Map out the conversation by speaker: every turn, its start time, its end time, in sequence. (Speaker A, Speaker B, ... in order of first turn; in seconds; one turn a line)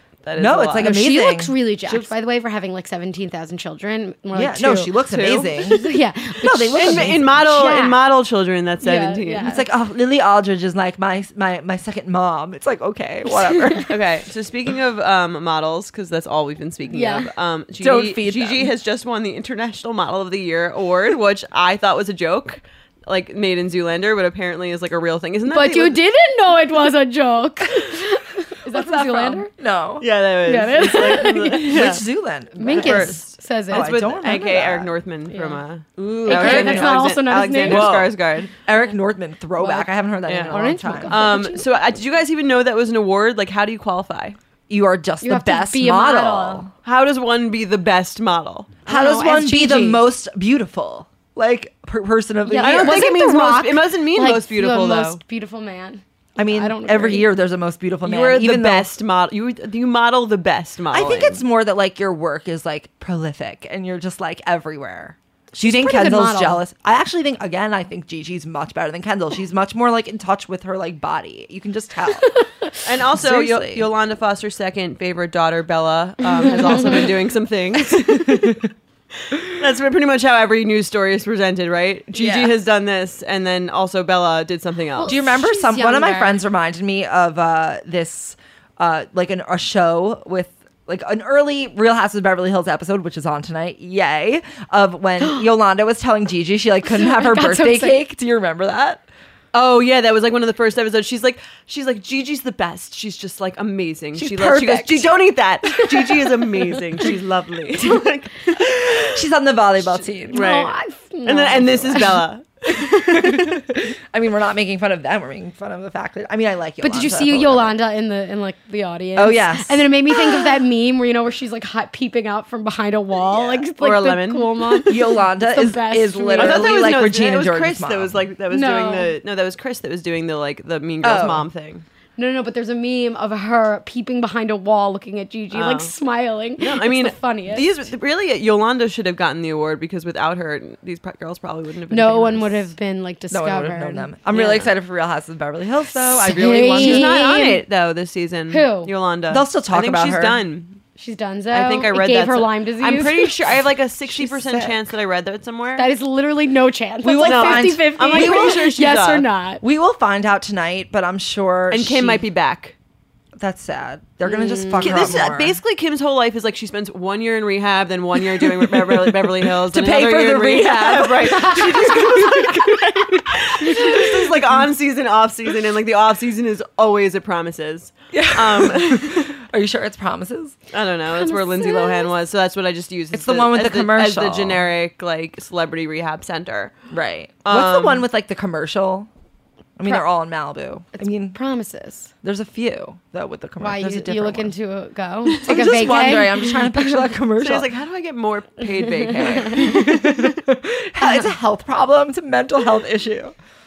Speaker A: 0.2-0.9
Speaker B: 0.4-2.1
Speaker C: 0.8-4.9
Speaker B: 4.3-5.8
Speaker A: 5.1-5.7
Speaker C: 5.7-8.0
Speaker B: 6.4-7.3
Speaker A: 6.8-9.5
Speaker C: 8.8-9.6
Speaker B: 9.4-13.9
Speaker A: 13.9-26.0
Speaker C: 16.9-17.3
Speaker B: 17.8-18.7
Speaker C: 25.5-29.5
Speaker B: 28.7-30.1
Speaker A: 30.0-32.0
Speaker C: 30.5-31.8
Speaker B: 31.0-34.9
Speaker C: 32.6-33.9
Speaker A: 32.7-38.5
Speaker C: 35.3-35.6
Speaker B: 36.0-37.1
Speaker C: 36.3-38.0
Speaker B: 37.6-41.3
Speaker C: 39.6-39.9
Speaker A: 40.3-44.4
Speaker C: 40.5-41.6
Speaker B: 44.7-46.7
Speaker C: 45.2-46.6
Speaker A: 46.8-48.8
Speaker C: 48.9-50.0
Speaker B: 48.9-53.1
Speaker C: 52.5-57.3
Speaker A: 52.6-55.2
Speaker B: 56.4-58.9
Speaker A: 58.0-61.4
Speaker B: 60.9-72.4
Speaker C: 65.6-66.6
Speaker A: 72.8-78.6
Speaker B: 73.1-73.9
Speaker C: 76.4-77.1
Speaker B: 78.2-78.6
Speaker A: 79.3-85.2
Speaker B: 82.1-82.6
Speaker C: 85.0-86.4
Speaker B: 85.0-99.0
Speaker C: 97.0-98.0
Speaker A: 99.5-109.2
Speaker B: 104.2-105.1
Speaker B: 108.5-110.5
Speaker A: 110.3-113.6
Speaker C: 110.3-112.2
Speaker B: 112.7-117.8
Speaker C: 116.8-126.8
Speaker B: 119.2-120.5
Speaker B: 123.3-123.6
Speaker A: 123.8-124.8
Speaker B: 124.9-128.2
Speaker A: 126.3-131.8
Speaker C: 128.5-129.1
Speaker B: 131.0-131.5
Speaker C: 132.2-137.7
Speaker A: 135.5-135.9
Speaker A: 136.6-142.7
Speaker C: 141.9-144.1
Speaker B: 143.3-147.2
Speaker A: 144.3-144.7
Speaker C: 146.1-147.6
Speaker A: 146.7-150.8
Speaker C: 148.5-148.9
Speaker B: 149.3-150.4
Speaker C: 151.0-153.3
Speaker A: 151.5-155.9
Speaker B: 154.1-154.8
Speaker C: 155.8-159.6
Speaker B: 157.0-158.6
Speaker A: 157.2-159.2
Speaker B: 159.6-162.2
Speaker A: 161.7-162.8
Speaker B: 163.4-165.6
Speaker C: 164.2-165.1
Speaker A: 164.8-179.4
Speaker B: 168.2-174.2
Speaker B: 178.1-180.6
Speaker A: 180.7-186.7
Speaker C: 181.1-182.1
Speaker B: 183.1-184.6
Speaker B: 186.9-189.1
Speaker A: 187.4-188.1
Speaker B: 189.8-191.4
Speaker C: 191.0-192.1
Speaker B: 192.2-194.5
Speaker C: 193.6-196.9
Speaker B: 195.4-197.7
Speaker A: 197.4-200.3
Speaker C: 199.1-199.6
Speaker B: 199.1-203.3